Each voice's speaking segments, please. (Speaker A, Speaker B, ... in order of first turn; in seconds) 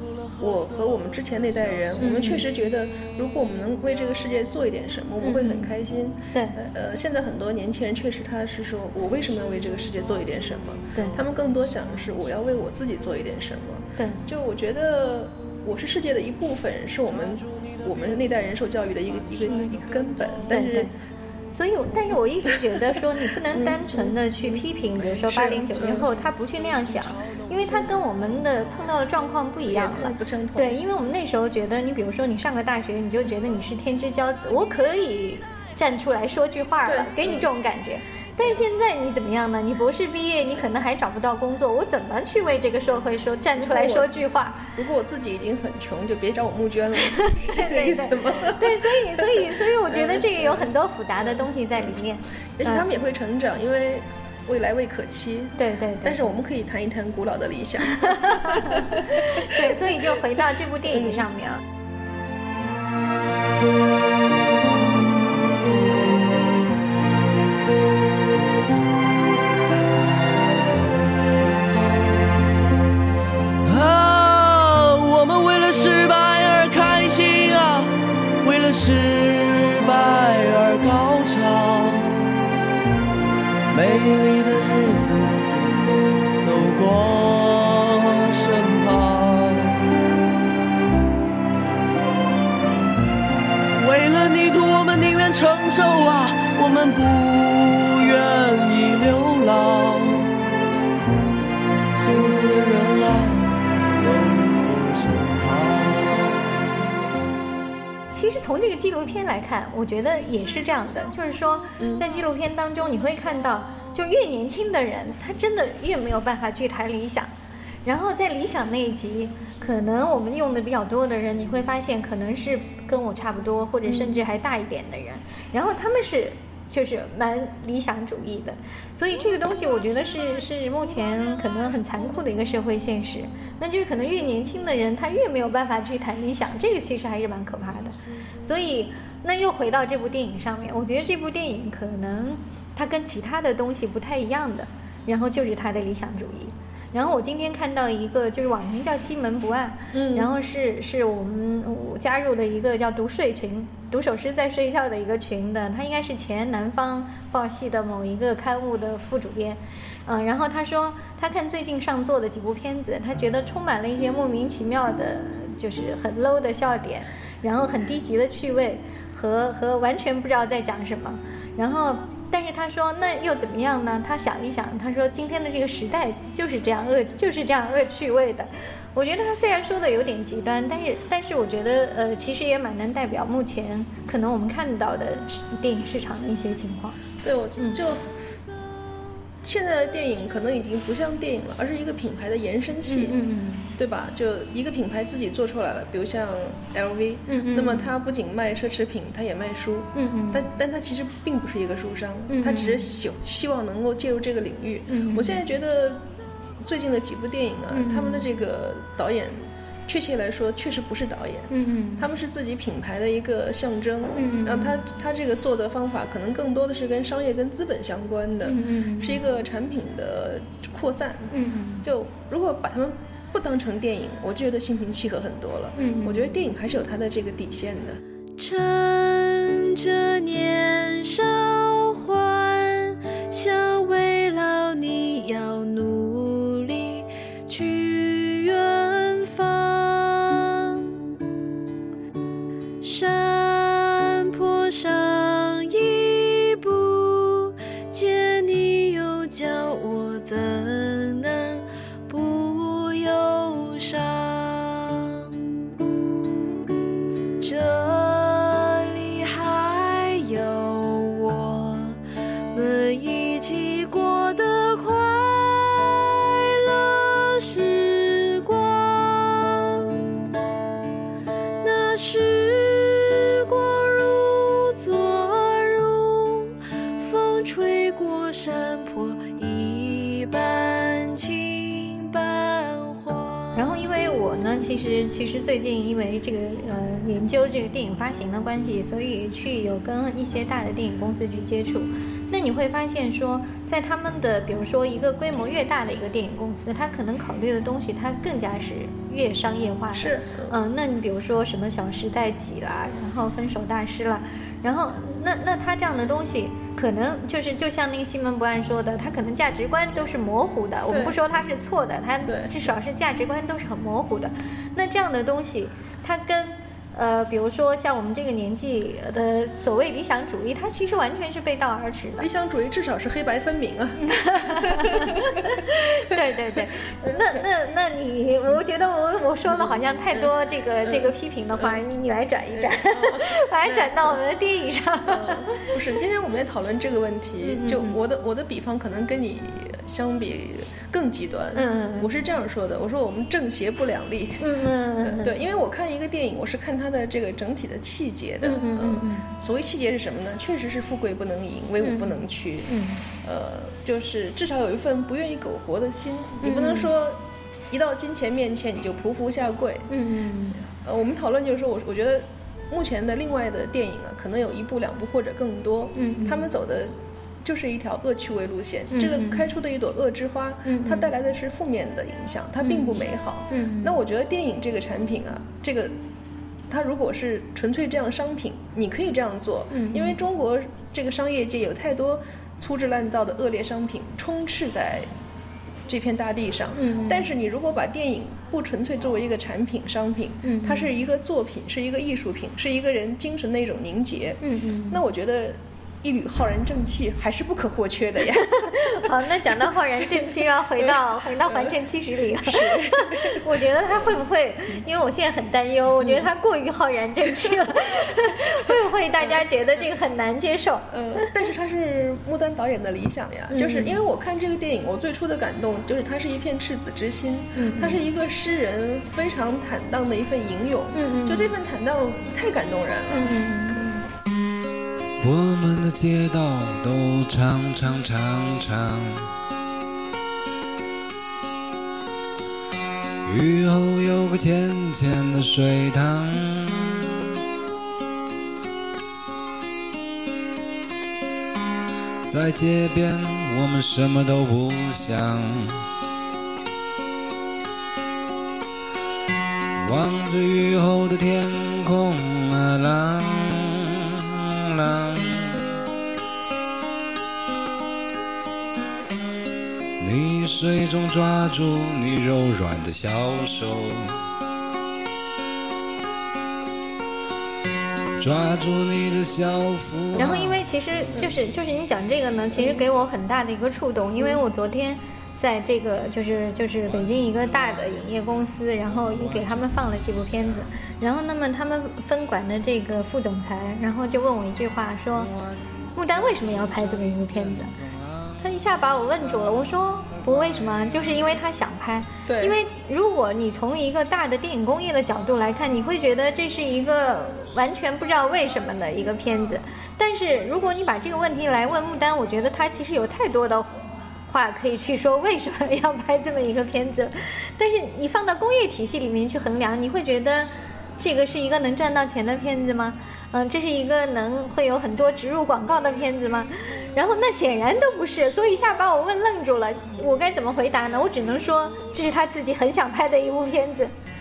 Speaker A: 0.4-20.9, 23.5-24.6, 25.2-26.1, 29.6-30.8, 36.9-37.5, 43.5-44.1, 44.8-48.8, 49.9-50.7, 52.6-55.5, 56.0-59.7, 60.9-61.3, 123.9-124.2, 149.9-150.3, 187.2-188.1, 189.4-193.2, 193.8-206.0, 206.6-221.3, 221.8-228.0, 299.9-300.5, 310.9-311.2, 312.3-312.5, 322.2-325.3, 330.9-331.8, 332.5-334.2, 335.1-344.5, 345.0-352.7, 353.2-357.2, 357.7-359.9, 360.7-366.9, 367.4-375.9, 376.7-385.1, 385.9-399.1, 402.4-403.4, 406.0-406.3, 410.9-423.4, 492.3-492.6
Speaker B: 2.0-2.5, 5.2-5.7, 10.9-11.2, 14.0-14.2, 20.5-20.9, 21.5-44.7, 47.1-52.9, 55.6-56.2, 57.9-61.6, 108.1-117.3, 117.8-187.0, 192.9-193.7, 197.3-197.9, 199.9-200.5, 202.3-202.9, 204.9-205.4, 207.7-208.3, 211.5-212.1, 214.2-214.8, 218.4-219.2, 221.3-221.9, 225.8-226.3, 283.6-322.3, 324.0-335.8, 337.4-338.0, 341.6-342.1, 344.4-345.4, 348.4-349.3, 351.8-353.0, 356.4-356.9, 359.9-360.6, 365.9-366.5, 368.9-369.5, 370.6-371.1, 372.6-374.0, 379.7-380.2, 386.7-387.3, 390.4-390.9, 394.4-395.0, 398.4-411.3, 413.5-414.0, 417.6-418.0, 420.9-421.6, 423.1-424.1, 470.1-485.3, 485.9-487.8, 488.4-523.9
Speaker C: 73.6-82.2, 83.7-85.7, 86.4-89.9, 93.7-100.3, 102.0-106.5
Speaker D: 228.4-241.1, 242.8-255.5, 257.4-262.0, 262.5-270.1, 271.6-283.7
Speaker E: 425.2-429.3, 433.2-437.1, 442.3-445.8, 449.8-453.9, 454.7-455.7, 460.0-464.1, 468.2-470.6, 479.3-480.1, 486.5-488.4